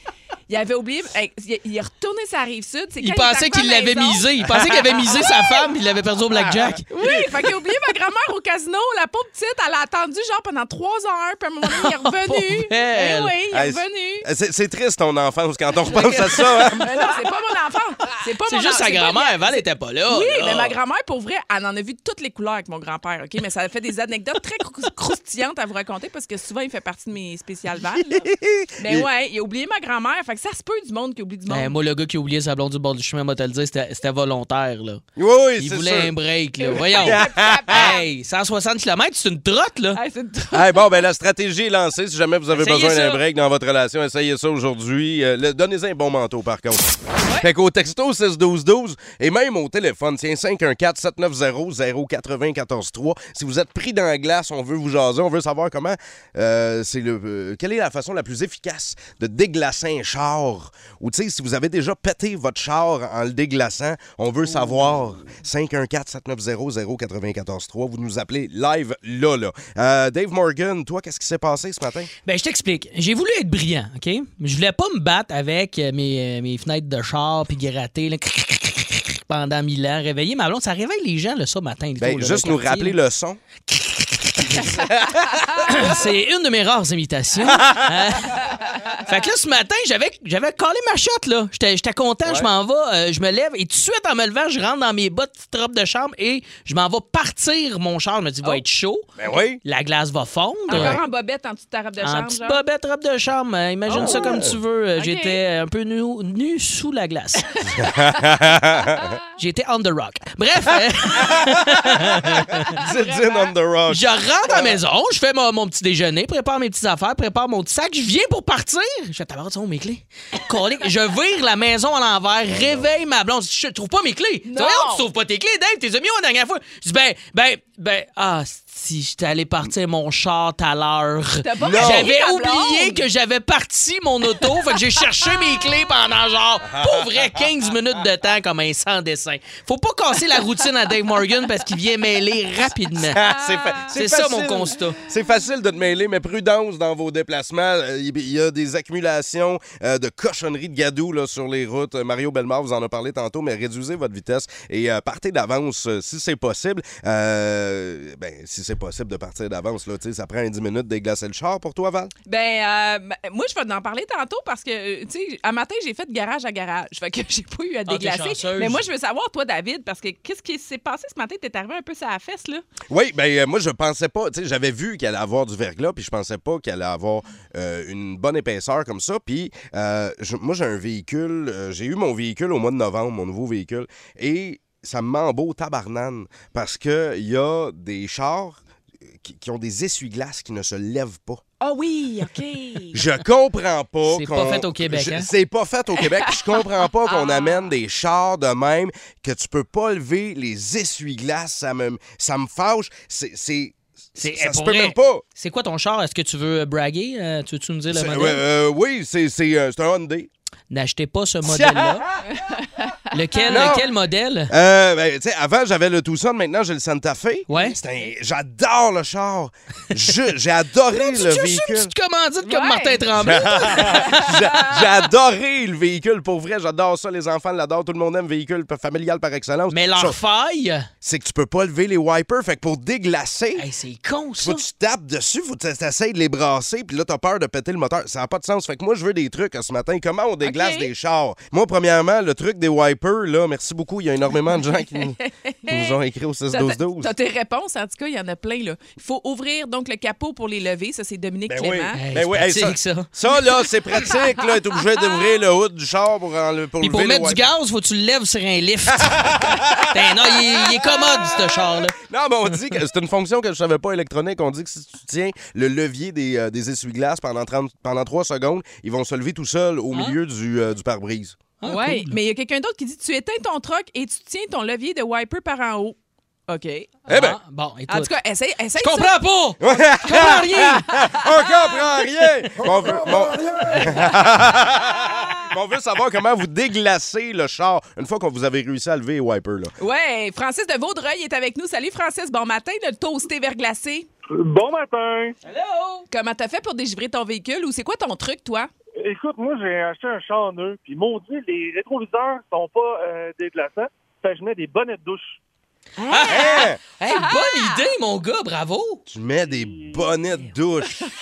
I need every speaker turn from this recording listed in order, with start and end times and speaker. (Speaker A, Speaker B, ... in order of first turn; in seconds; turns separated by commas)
Speaker A: 0.5-4.2, Speaker B: 3.0-6.8, Speaker A: 5.2-5.7, Speaker C: 6.5-7.2, Speaker A: 6.9-14.3, Speaker B: 11.7-13.3, Speaker C: 13.5-17.0, Speaker A: 16.0-31.7, Speaker B: 18.5-20.8, Speaker C: 28.0-29.1, Speaker B: 31.5-35.0, Speaker C: 35.1-36.1, Speaker B: 35.6-40.0, Speaker A: 36.6-38.0, Speaker C: 37.0-37.9, Speaker A: 39.9-40.8, Speaker C: 40.5-72.1, Speaker B: 42.5-43.2, Speaker A: 47.2-47.5, Speaker B: 72.2-83.0, Speaker C: 82.0-83.4, Speaker B: 83.7-84.8, Speaker C: 84.5-85.2, Speaker B: 85.6-99.1, Speaker C: 99.2-99.6, Speaker B: 99.6-101.0, Speaker A: 100.7-102.6, Speaker C: 100.7-101.0, Speaker B: 102.0-107.5, Speaker C: 103.9-104.5, Speaker A: 104.0-104.5, Speaker A: 105.0-105.4, Speaker A: 107.6-107.8, Speaker C: 107.7-109.1, Speaker B: 109.3-112.7, Speaker C: 112.7-114.8, Speaker A: 112.8-113.5, Speaker B: 113.9-143.2, Speaker C: 122.5-122.9, Speaker A: 124.5-125.0, Speaker A: 131.4-133.1, Speaker C: 131.6-132.1, Speaker C: 136.7-137.4, Speaker C: 143.1-162.1, Speaker A: 143.3-143.8, Speaker B: 143.9-145.0, Speaker A: 162.3-172.6, Speaker B: 167.9-168.8, Speaker C: 172.9-188.6, Speaker C: 189.2-191.4, Speaker A: 191.6-193.0, Speaker C: 192.9-205.2, Speaker B: 194.1-195.3, Speaker A: 197.1-197.6, Speaker B: 204.2-208.4, Speaker C: 207.9-210.3, Speaker B: 210.7-212.0, Speaker C: 211.4-212.2, Speaker A: 212.3-213.8, Speaker B: 213.1-214.5, Speaker C: 213.5-213.8, Speaker C: 214.5-221.9, Speaker B: 217.5-217.8, Speaker B: 220.9-224.3, Speaker A: 222.4-224.8, Speaker C: 223.2-230.2, Speaker B: 229.7-230.9, Speaker C: 231.0-233.7, Speaker B: 233.6-234.7, Speaker C: 234.4-247.1, Speaker A: 240.4-240.9, Speaker A: 245.0-246.0, Speaker A: 246.5-252.0, Speaker C: 251.5-257.4, Speaker B: 251.9-253.1, Speaker B: 256.8-259.3, Speaker C: 258.9-259.9, Speaker B: 259.8-261.9, Speaker C: 260.8-271.4, Speaker B: 271.6-272.2, Speaker A: 271.6-276.0, Speaker A: 276.5-277.0, Speaker C: 277.1-277.4, Speaker B: 277.1-278.1, Speaker A: 277.9-279.2, Speaker B: 278.8-280.8, Speaker C: 279.6-289.7, Speaker A: 280.1-281.7, Speaker B: 282.6-282.9, Speaker A: 289.8-294.1, Speaker D: 294.3-295.4, Speaker B: 295.4-296.0, Speaker A: 296.1-298.7, Speaker D: 299.0-305.4, Speaker A: 306.0-307.9, Speaker B: 306.1-309.0, Speaker C: 306.3-306.8, Speaker C: 309.1-311.1, Speaker D: 309.4-310.2